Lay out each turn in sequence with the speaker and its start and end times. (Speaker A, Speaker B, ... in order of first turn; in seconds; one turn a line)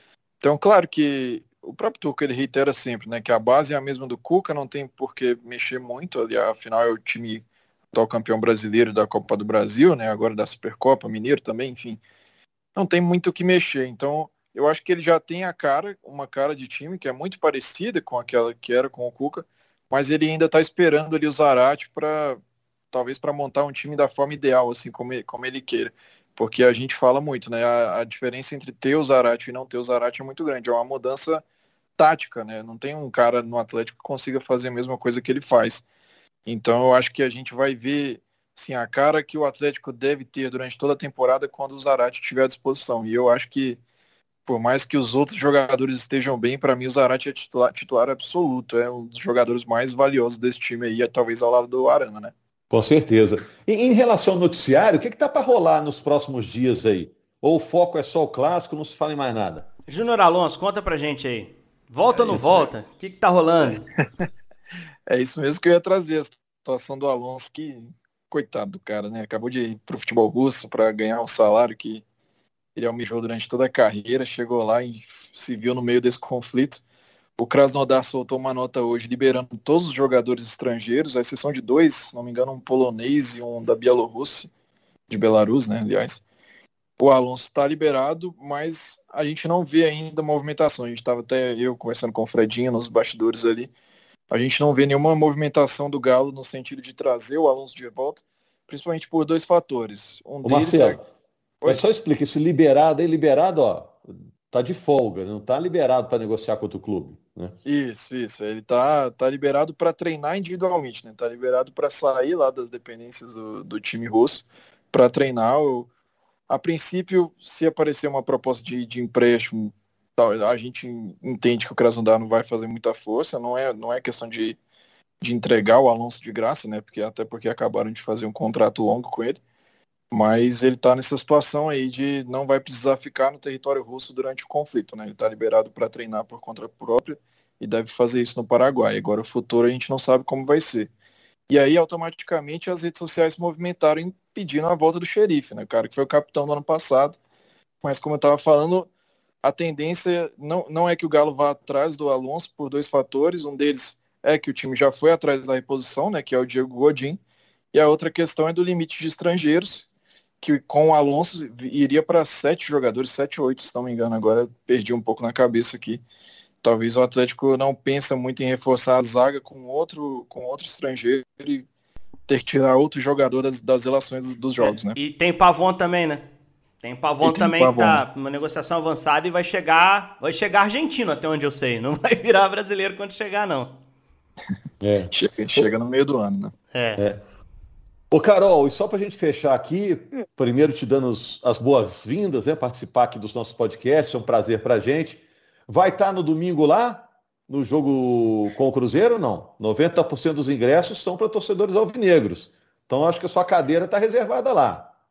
Speaker A: 0.4-12.0
Speaker A: 12.8-22.4
Speaker A: 22.9-31.4
Speaker A: 32.0-35.8
Speaker A: 36.5-43.8
Speaker A: 44.5-52.3
Speaker B: 52.7-59.7
Speaker C: 59.9-63.9
Speaker A: 62.2-62.7
Speaker A: 63.6-64.3
Speaker A: 65.1-72.0
Speaker A: 72.8-76.8
Speaker A: 77.4-84.5
Speaker A: 85.1-86.2
Speaker A: 87.0-93.7
Speaker A: 94.3-101.0
Speaker B: 100.4-101.0
Speaker B: 101.7-104.0
Speaker B: 104.5-107.6
Speaker A: 107.7-115.9
Speaker A: 116.5-124.6
Speaker A: 125.2-129.4
Speaker A: 130.1-140.9
Speaker A: 141.5-147.2
Speaker A: 147.8-148.9
Speaker A: 149.4-157.2
Speaker A: 157.7-159.9
Speaker A: 160.4-166.0
Speaker A: 166.6-171.7
Speaker A: 172.3-175.0
Speaker C: 174.6-176.3
Speaker C: 176.8-183.8
Speaker A: 177.2-178.1
Speaker B: 184.8-185.7
Speaker A: 185.1-186.5
Speaker C: 186.7-187.0
Speaker B: 187.0-187.2
Speaker B: 188.1-204.9